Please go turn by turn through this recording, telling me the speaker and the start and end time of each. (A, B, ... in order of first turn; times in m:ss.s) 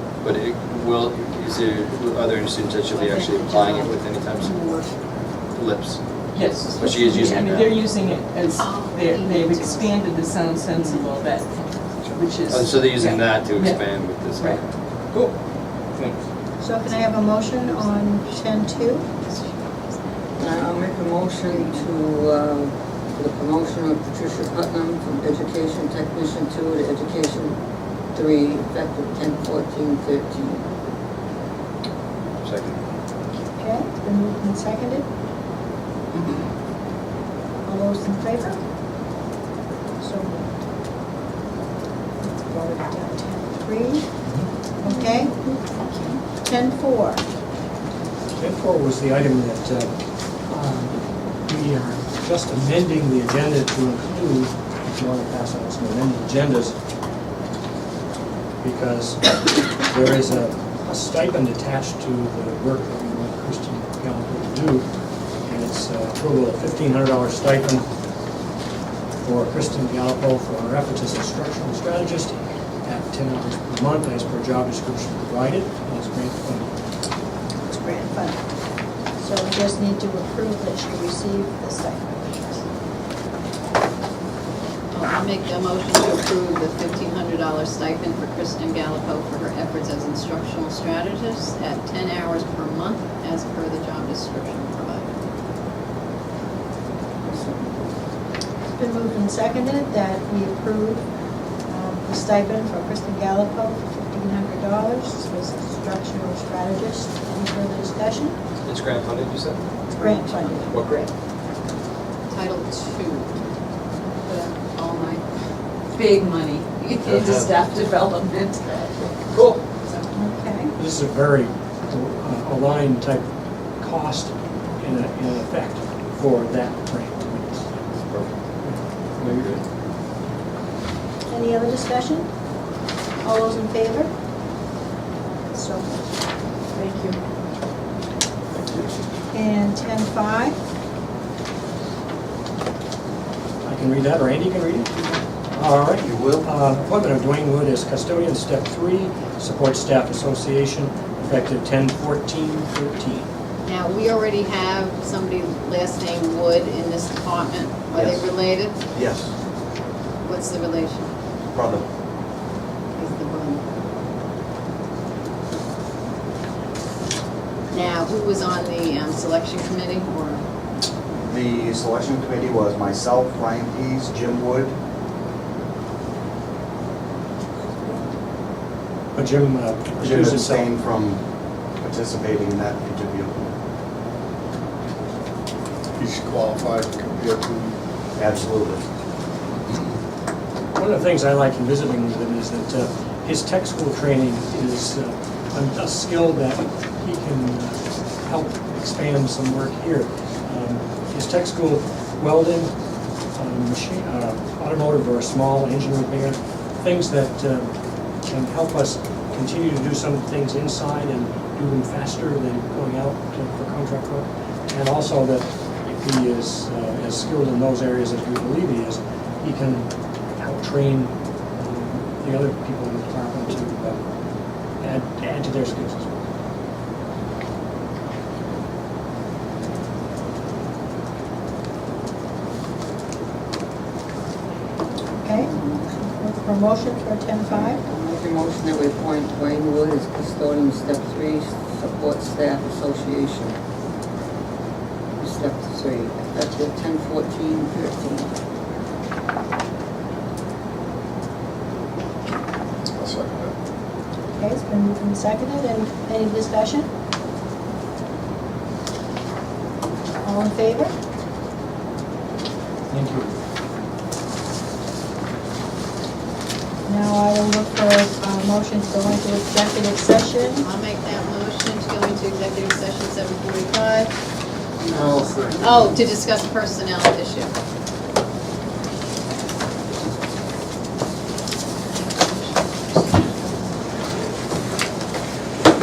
0:00.2-0:04.5 A
0:02.9-0:04.9 B
0:05.5-0:06.2 A
0:06.3-0:14.6 C
0:06.8-0:07.7 A
0:08.6-0:10.1 B
0:10.7-0:11.6 B
0:12.0-0:14.7 A
0:16.6-0:19.1 D
0:16.8-0:20.7 B
0:20.4-0:27.6 E
0:21.5-0:21.8 D
0:28.1-0:30.6 E
0:32.4-0:32.8 A
0:33.6-0:35.0 D
0:37.6-0:38.6 D
0:40.0-0:40.6 D
0:42.2-0:44.0 D
0:44.8-0:45.4 D
0:46.3-0:47.2 D
0:48.4-0:49.9 F
0:50.5-0:56.7 F
0:58.6-1:04.9 F
1:05.4-1:07.8 F
1:09.2-1:16.7 F
1:17.7-1:18.4 D
1:19.2-1:22.6 D
1:24.9-1:35.1 B
1:37.2-1:37.8 E
1:38.7-1:41.0 D
1:41.7-1:48.4 D
1:48.6-1:49.6 A
1:50.0-1:51.1 B
1:50.0-1:50.7 D
1:52.3-1:53.3 B
1:54.2-1:55.2 B
1:55.9-1:58.1 B
1:56.9-1:59.0 C
2:00.1-2:00.7 D
2:00.8-2:03.2 F
2:03.8-2:07.7 F
2:08.6-2:09.6 F
2:11.3-2:12.3 D
2:13.2-2:14.1 D
2:15.5-2:16.0 D
2:16.8-2:17.1 D
2:19.3-2:20.6 D
2:23.6-2:24.9 F
2:25.5-2:33.3 F
2:26.0-2:26.5 G
2:33.6-2:38.8 B
2:37.9-2:38.2 G
2:38.9-2:39.3 G
2:40.2-2:41.1 B
2:41.5-2:41.8 G
2:42.9-2:43.8 B
2:47.7-2:50.4 B
2:51.1-2:54.7 G
2:59.1-3:00.7 F
2:59.9-3:01.2 G
3:01.8-3:03.5 G
3:06.0-3:07.8 H
3:08.2-3:08.8 G
3:10.8-3:22.7 F
3:23.4-3:27.7 F
3:28.2-3:44.0 F
3:44.8-3:46.2 F
3:55.2-3:57.8 D
3:55.3-3:55.8 E
3:57.5-4:03.6 E
4:05.2-4:08.3 E
4:12.9-4:13.5 H
4:14.4-4:16.9 D
4:20.2-4:20.9 D
4:22.9-4:23.3 F
4:26.8-4:30.6 D
4:30.4-4:34.1 B
4:34.9-4:35.9 E
4:35.6-4:37.5 B
4:42.0-4:43.5 B